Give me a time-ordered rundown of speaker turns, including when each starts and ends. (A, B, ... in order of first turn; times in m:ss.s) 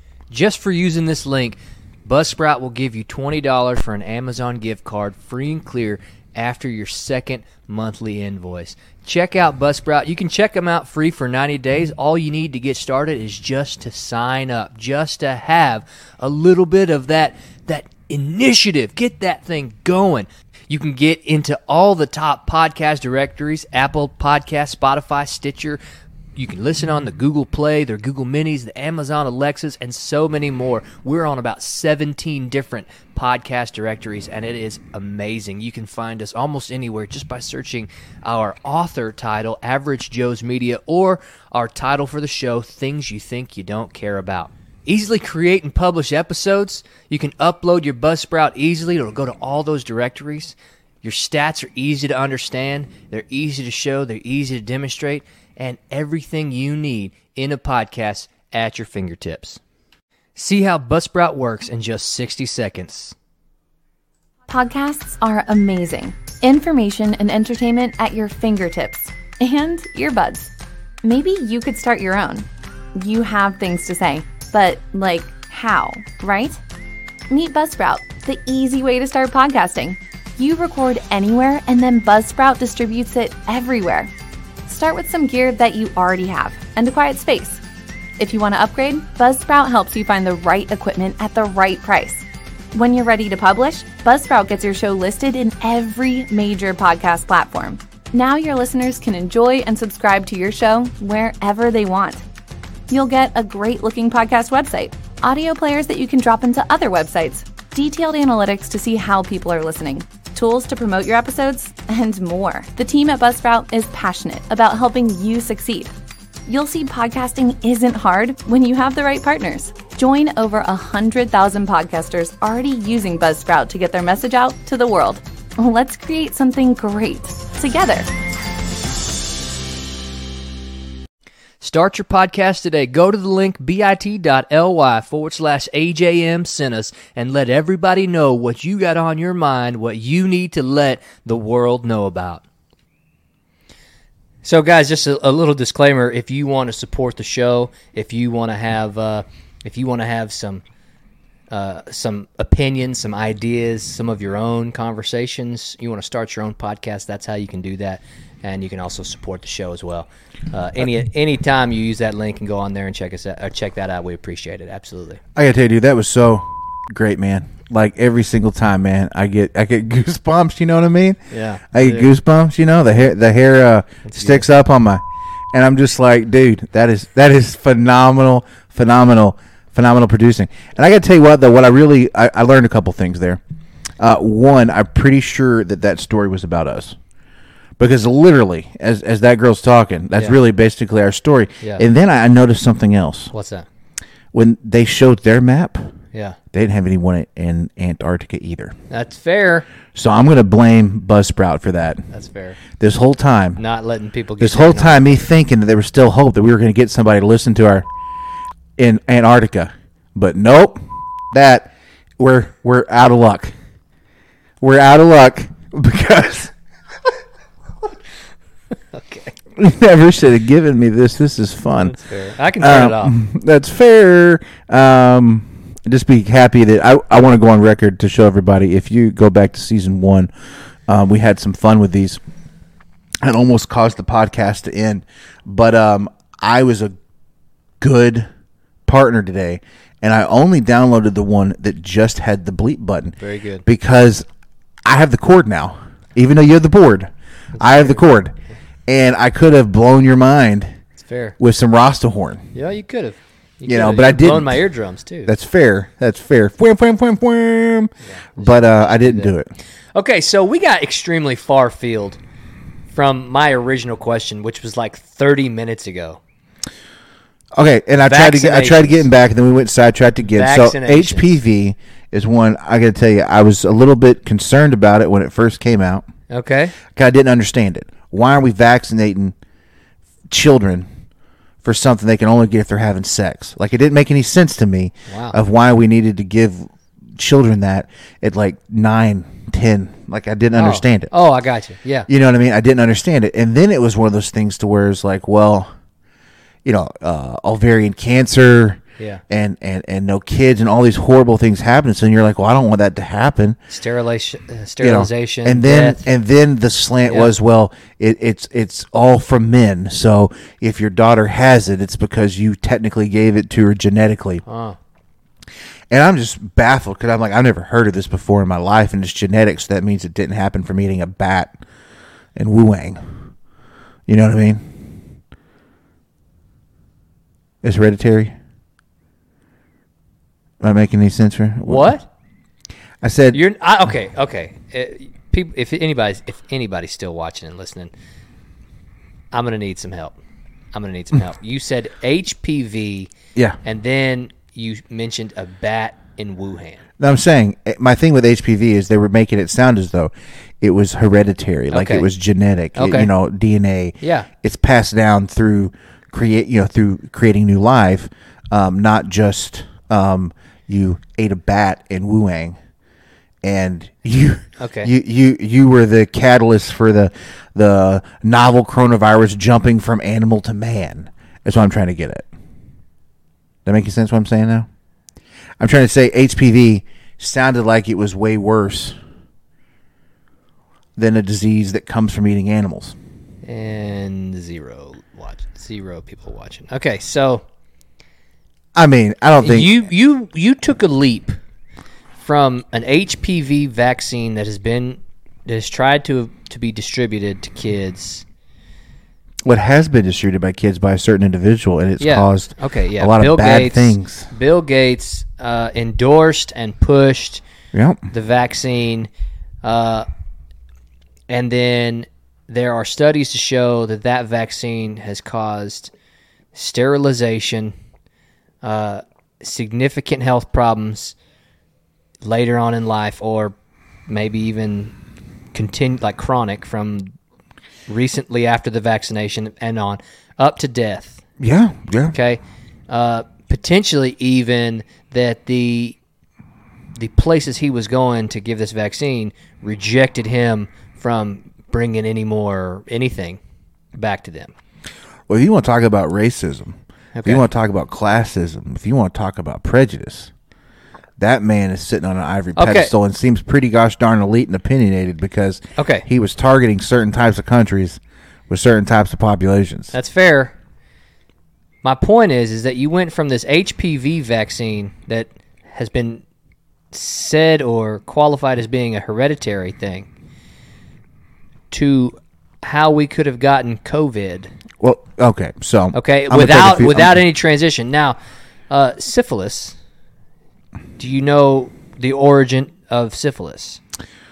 0:00.3-0:25.8 A
0:26.4-0:59.6 A
1:00.4-1:03.1 A
1:04.5-1:10.5 B
1:11.0-1:16.6 B
1:17.3-1:24.1 B
1:24.6-1:27.6 B
1:28.2-1:42.2 B
1:42.9-1:55.9 B
1:56.5-2:08.1 B
2:11.6-2:22.4 A
2:24.4-2:30.6 A
2:31.5-2:45.2 A
2:45.3-2:51.2 C
2:51.3-2:52.1 A
2:51.7-3:03.4 C
2:54.0-2:54.4 A
3:04.0-3:07.0 C
3:07.8-3:13.3 C
3:13.3-3:13.6 A
3:14.3-3:15.9 C
3:16.5-3:18.7 C
3:18.9-3:19.7 A
3:19.9-3:22.0 C
3:22.1-3:22.6 A
3:22.8-3:23.6 C
3:23.6-3:25.2 A
3:24.4-3:27.9 C
3:28.8-3:33.5 C
3:34.6-3:36.5 C
3:38.9-3:39.3 A
3:39.6-3:42.0 C
3:41.8-3:43.2 A
3:42.6-3:50.3 C
3:50.9-3:52.2 C
3:53.2-3:57.0 C
3:57.8-3:58.3 C
3:58.8-4:04.2 C
4:03.2-4:03.6 A
4:04.8-4:08.3 C
4:07.6-4:08.0 A
4:08.9-4:10.8 C
4:11.0-4:11.4 A
4:11.4-4:12.4 C
4:12.5-4:15.3 A
4:13.6-4:14.6 C
4:15.2-4:19.5 C
4:18.0-4:19.3 A
4:19.9-4:22.2 A
4:22.9-4:26.2 A
4:27.5-4:36.1 C
4:28.0-4:29.1 A
4:30.3-4:31.3 A
4:36.3-4:36.7 A
4:36.9-4:39.3 C
4:40.3-4:40.9 C
4:41.6-4:51.1 C
4:45.1-4:45.4 A
4:50.6-4:52.1 A
4:52.1-4:55.7 C
4:56.6-5:03.6 C
5:03.7-5:06.0 A
5:04.8-5:14.4 C
5:07.1-5:07.3 A
5:14.4-5:14.8 A
5:15.9-5:21.6 C
5:22.4-5:23.0 C
5:24.1-5:25.0 C
5:27.6-5:28.3 C
5:30.6-5:32.0 C
5:31.6-5:32.1 A
5:33.0-5:33.4 C
5:33.3-5:37.9 A
5:39.3-5:40.2 A
5:40.7-5:43.1 A
5:43.6-5:46.8 A
5:47.0-6:02.6 C
5:51.7-5:52.1 A
5:52.8-5:53.1 A
5:54.0-5:54.3 A
6:03.4-6:12.3 C
6:04.6-6:04.9 A
6:13.6-6:14.7 C
6:15.6-6:19.0 C
6:21.0-6:23.0 C
6:23.4-6:27.4 A
6:28.7-6:29.7 C
6:29.4-6:31.4 A
6:32.2-6:38.2 A
6:39.4-6:44.3 C
6:42.0-6:47.4 A
6:47.7-6:48.0 C
6:48.1-6:49.1 A
6:49.6-6:50.0 A
6:51.3-6:55.9 A
6:56.5-6:57.7 A
6:58.6-7:01.1 A
7:02.2-7:03.5 A
7:04.1-7:04.9 A
7:05.5-7:07.1 A
7:07.9-7:11.2 A
7:11.4-7:12.1 C
7:12.1-7:16.0 A
7:17.0-7:23.4 A
7:24.0-7:24.5 A
7:25.3-7:30.3 C
7:27.1-7:27.4 A
7:31.2-7:39.9 C
7:32.6-7:32.9 A
7:35.8-7:36.0 A
7:39.9-7:40.5 A
7:41.8-7:46.2 A
7:46.9-7:50.1 A
7:51.7-7:54.5 A
7:54.8-7:57.2 C
7:55.9-7:58.2 A
7:58.7-7:59.8 A
8:01.0-8:03.8 A